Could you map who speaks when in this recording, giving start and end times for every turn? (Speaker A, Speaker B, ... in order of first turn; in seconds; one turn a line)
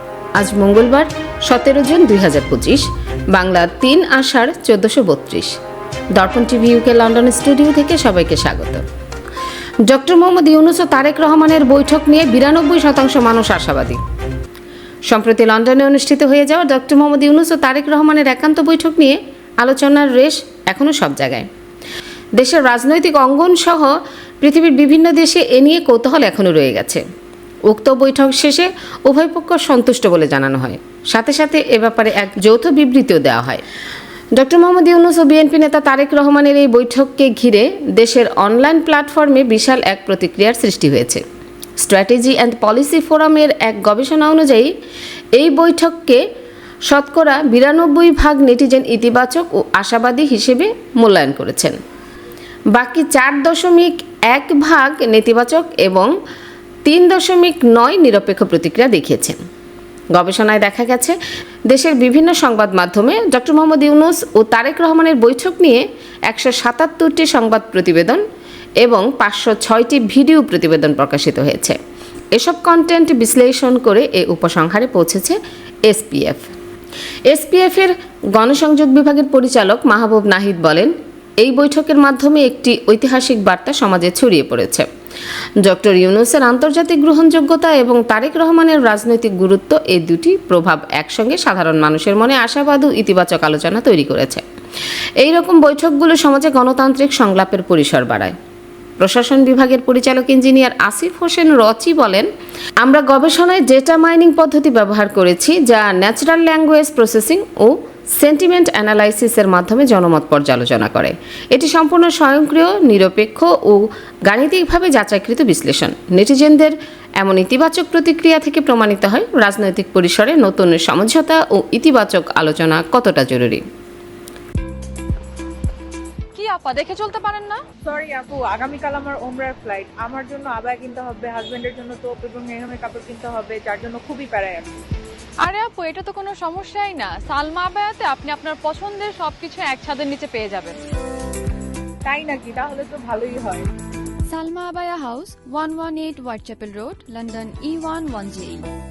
Speaker A: 0.4-5.5
Speaker A: 6.2-8.8
Speaker A: 9.8-14.0
Speaker A: 15.1-21.5
Speaker A: 22.4-27.0
Speaker A: 27.7-33.6
Speaker A: 34.4-41.2
Speaker A: 41.8-44.7
Speaker A: 45.4-46.2
Speaker A: 46.9-51.8
Speaker A: 52.7-56.1
Speaker A: 56.8-59.4
Speaker A: 60.1-61.2
Speaker A: 61.7-68.2
Speaker A: 68.8-71.8
Speaker A: 72.3-76.5
Speaker A: 77.3-84.8
Speaker A: 85.6-94.4
Speaker A: 95.2-98.3
Speaker A: 99.0-102.2
Speaker A: 102.8-123.6
Speaker B: 126.3-127.6
Speaker C: 127.8-134.8
Speaker B: 135.4-140.8
Speaker C: 142.0-143.7
Speaker D: 144.3-148.6
Speaker B: 147.0-148.3